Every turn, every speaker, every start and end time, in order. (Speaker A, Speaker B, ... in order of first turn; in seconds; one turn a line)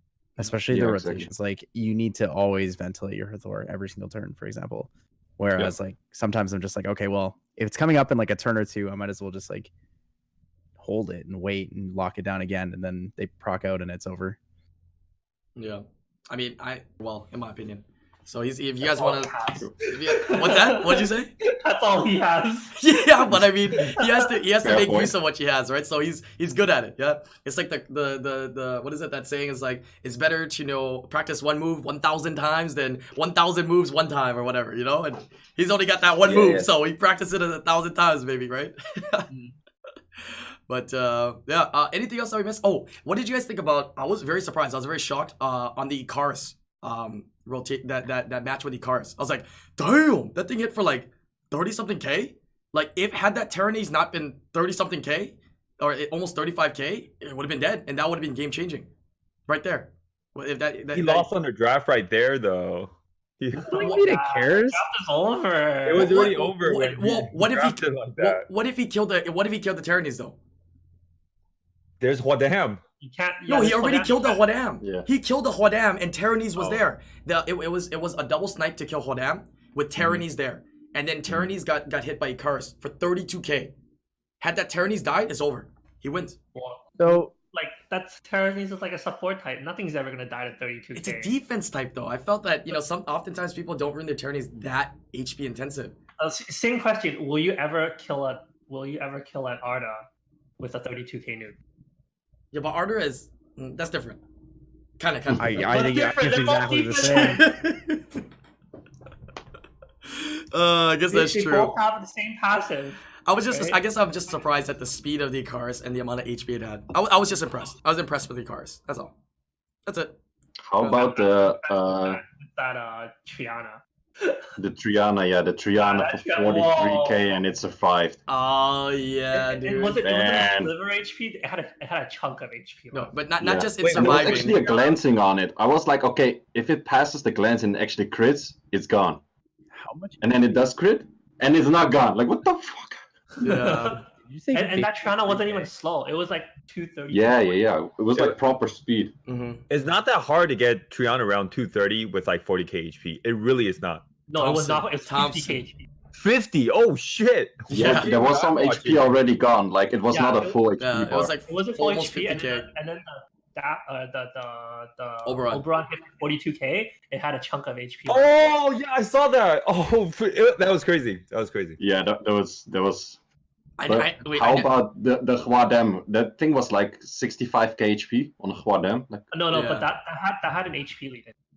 Speaker A: 0.4-9.7
Speaker B: 0.7-1.3
Speaker A: 10.8-14.4
Speaker C: 15.6-21.3
Speaker D: 18.8-22.8
Speaker C: 22.8-39.3
Speaker D: 23.8-24.3
Speaker B: 24.6-25.1
Speaker E: 36.2-36.7
Speaker C: 40.3-58.9
Speaker C: 59.5-61.3
Speaker E: 60.9-64.0
Speaker D: 63.7-66.2
Speaker A: 63.7-64.8
Speaker E: 65.9-68.5
Speaker C: 66.0-70.4
Speaker E: 72.0-72.8
Speaker D: 73.0-74.4
Speaker C: 73.5-83.7
Speaker E: 76.6-76.8
Speaker C: 84.4-86.4
Speaker D: 86.5-91.3
Speaker A: 87.0-87.3
Speaker C: 91.0-96.0
Speaker D: 96.2-100.0
Speaker D: 100.6-101.6
Speaker C: 102.5-104.2
Speaker C: 105.0-106.1
Speaker A: 105.4-107.4
Speaker D: 105.6-107.5
Speaker C: 107.0-108.2
Speaker C: 110.1-111.8
Speaker D: 111.1-113.8
Speaker C: 113.3-119.1
Speaker C: 119.9-120.2
Speaker B: 120.7-122.2
Speaker D: 120.9-124.5
Speaker B: 124.6-128.2
Speaker D: 125.8-127.2
Speaker C: 128.3-130.0
Speaker D: 129.3-133.1
Speaker B: 130.0-130.7
Speaker C: 132.9-134.6
Speaker B: 133.4-139.2
Speaker E: 133.8-134.6
Speaker D: 134.6-134.9
Speaker A: 139.7-140.2
Speaker B: 140.2-143.0
Speaker D: 143.4-147.6
Speaker C: 143.4-144.0
Speaker A: 144.3-145.7
Speaker B: 147.1-149.1
Speaker C: 149.3-149.6
Speaker E: 149.7-154.1
Speaker D: 154.3-155.9
Speaker C: 154.4-155.6
Speaker E: 156.1-159.2
Speaker C: 157.7-158.2
Speaker B: 157.7-161.3
Speaker D: 160.1-168.3
Speaker C: 160.8-162.7
Speaker C: 165.2-165.6
Speaker E: 168.1-171.8
Speaker B: 171.8-173.2
Speaker C: 173.8-174.8
Speaker B: 173.9-179.3
Speaker D: 179.3-181.3
Speaker C: 179.5-179.9